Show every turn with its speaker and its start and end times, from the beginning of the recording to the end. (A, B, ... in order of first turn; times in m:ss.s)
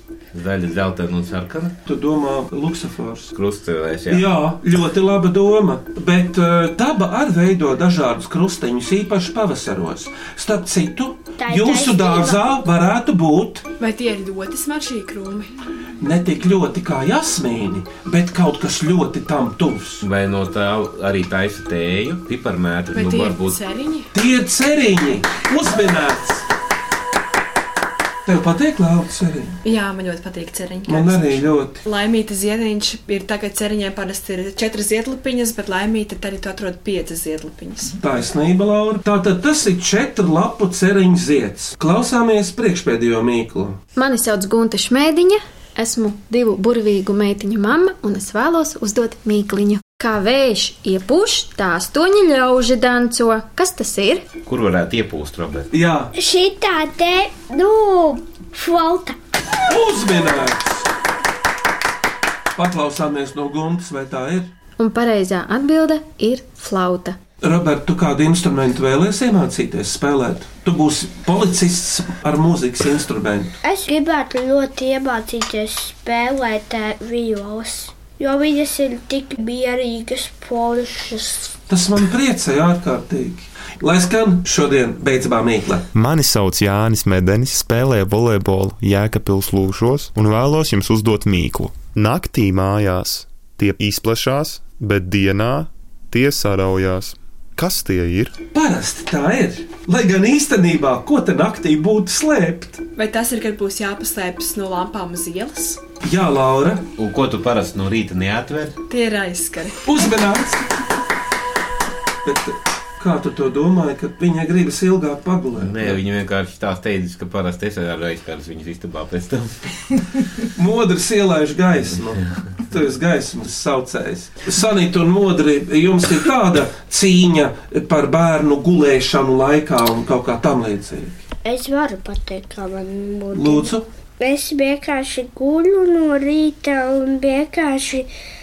0:00.3-0:01.8 A
0:01.8-0:03.3 B
0:03.3-0:04.2 A
0:04.1-0:13.6 B
0:11.4-0:12.4 C
0:13.8-0:15.5 D
0:16.0-0:20.0 B
0:20.0-0:23.6 A
0:22.9-0:24.1 D
0:24.1-0:26.5 B
0:28.2-0:29.6 B
0:29.6-0:38.0 D
0:30.9-0:31.8 B
0:37.9-0:43.8 B
0:43.9-0:54.2 E
0:54.4-0:55.7 A
0:55.7-0:56.1 B
0:56.1-0:59.2 C
0:59.7-1:00.8 B
1:02.5-1:04.5 B
1:04.8-1:07.2 E
1:07.4-1:13.6 B
1:13.6-1:21.5 C
1:21.7-1:25.9 B
1:25.9-1:38.3 F
1:38.5-1:42.8 B
1:43.0-1:45.8 D
1:46.0-1:46.8 B
1:47.0-1:48.8 A
1:48.9-1:49.8 D
1:49.8-1:50.7 B
1:52.2-1:56.0 B
1:55.6-2:00.0 A
2:00.5-2:11.2 B
2:11.4-2:18.1 C
2:13.3-2:13.8 B